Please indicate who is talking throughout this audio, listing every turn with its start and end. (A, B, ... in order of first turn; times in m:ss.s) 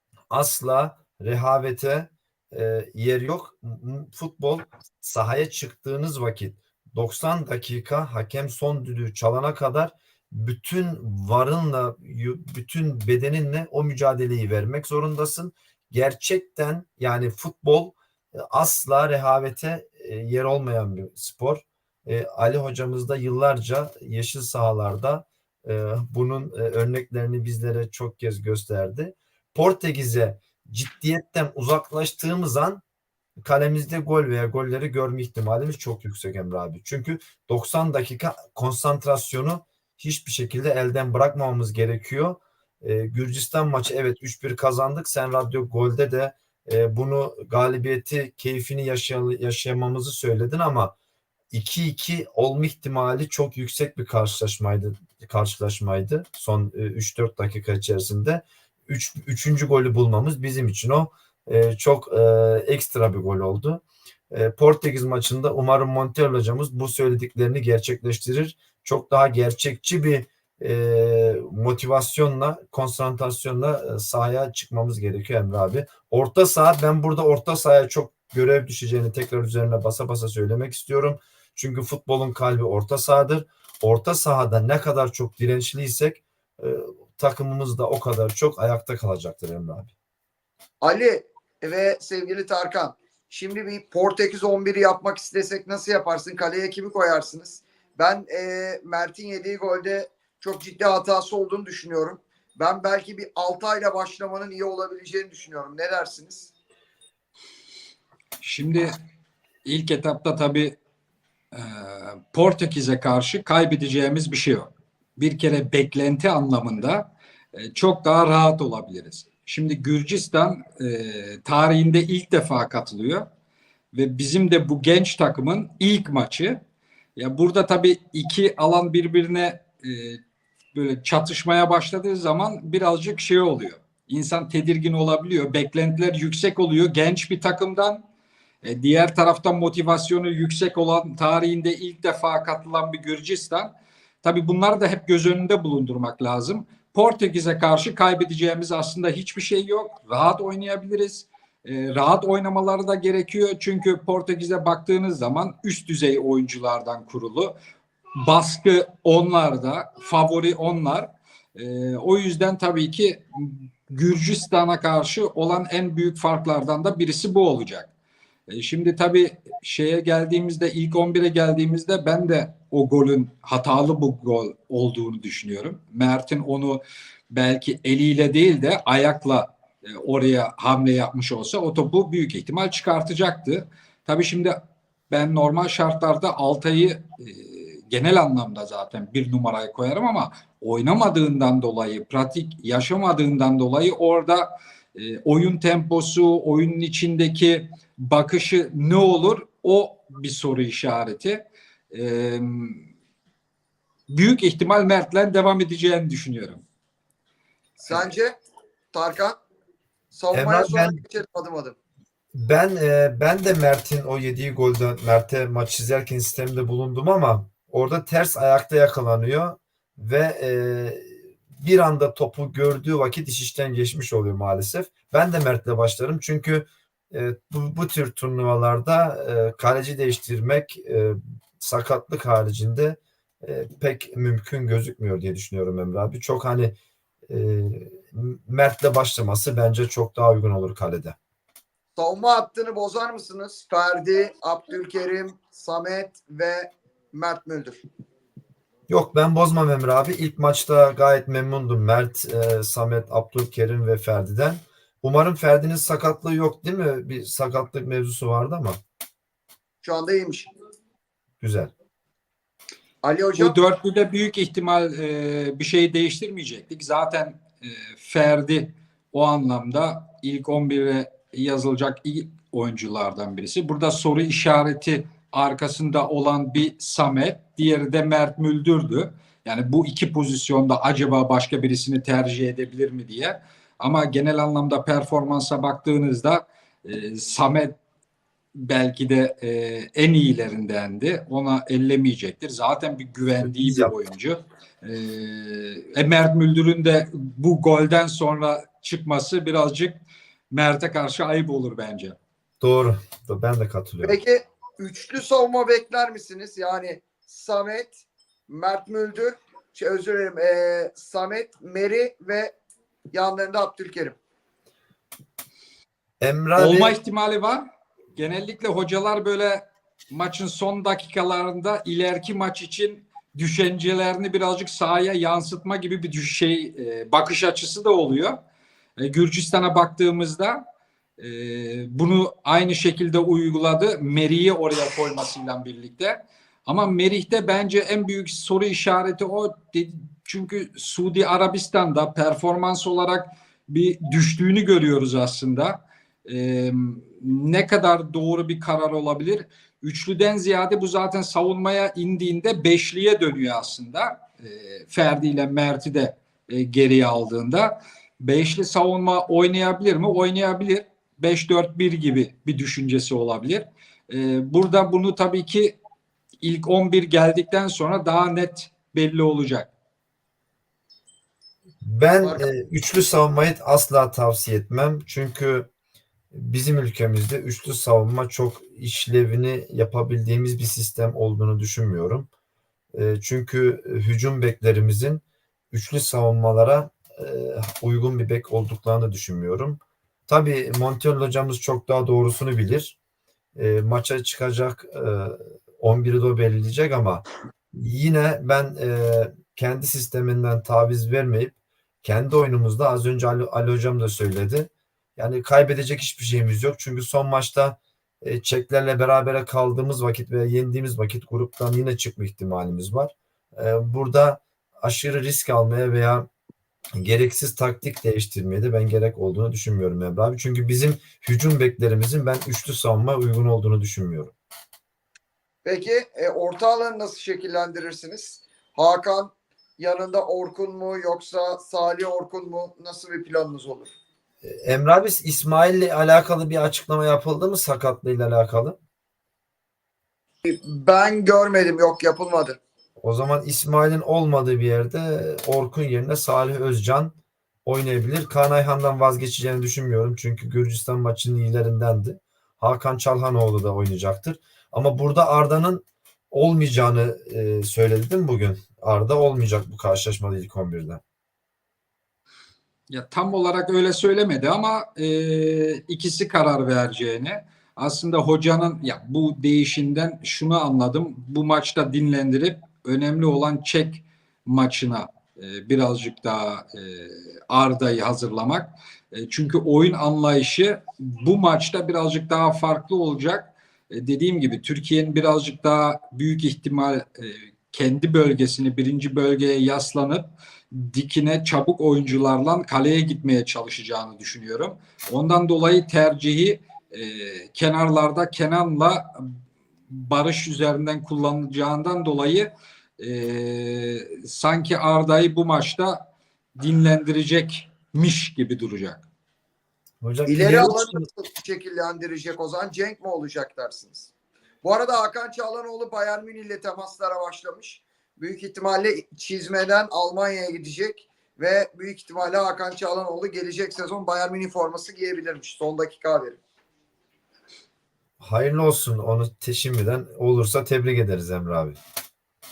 0:00.3-0:32.8 A
0:33.4-0:50.9 A
0:51.5-1:29.9 A
1:30.8-1:46.5 B
1:48.4-1:49.0 C
1:49.6-1:50.8 C
1:51.5-2:03.3 C
2:03.9-2:06.6 C
2:07.2-2:10.2 C
2:10.7-2:18.0 C
2:18.6-2:37.6 C
2:38.2-2:47.9 C
2:48.5-3:22.8 C
3:24.1-3:26.6 C
3:27.8-3:28.4 B
3:28.9-3:29.4 B
3:30.1-3:31.8 B
3:30.3-3:31.0 A
3:32.3-3:56.8 A
3:57.3-4:01.2 A
4:02.0-4:07.8 B
4:08.9-4:18.8 A
4:19.8-4:20.5 B
4:21.4-4:21.7 A
4:23.0-4:23.6 B
4:23.4-4:47.8 C
4:48.6-5:00.0 C
4:53.4-4:53.9 A
5:00.5-5:02.2 C
5:02.6-5:04.2 A
5:04.0-5:12.5 B
5:13.1-5:14.2 B
5:16.2-5:16.9 A
5:16.6-5:17.6 C
5:18.2-5:28.4 C
5:29.0-5:30.6 C
5:31.2-6:05.8 C
6:06.4-6:09.7 C
6:11.8-6:15.7 A
6:12.2-6:12.5 B
6:16.3-6:22.3 A
6:22.9-6:33.0 A
6:33.6-6:56.3 A
6:57.0-7:04.3 A
7:05.6-7:13.9 B
7:14.4-7:18.8 A
7:20.4-7:22.6 B
7:23.0-7:41.0 A
7:42.9-8:19.3 C
8:19.9-8:29.0 C
8:30.0-8:31.1 A
8:30.3-8:34.1 B
8:34.6-8:46.4 B
8:48.2-8:51.8 A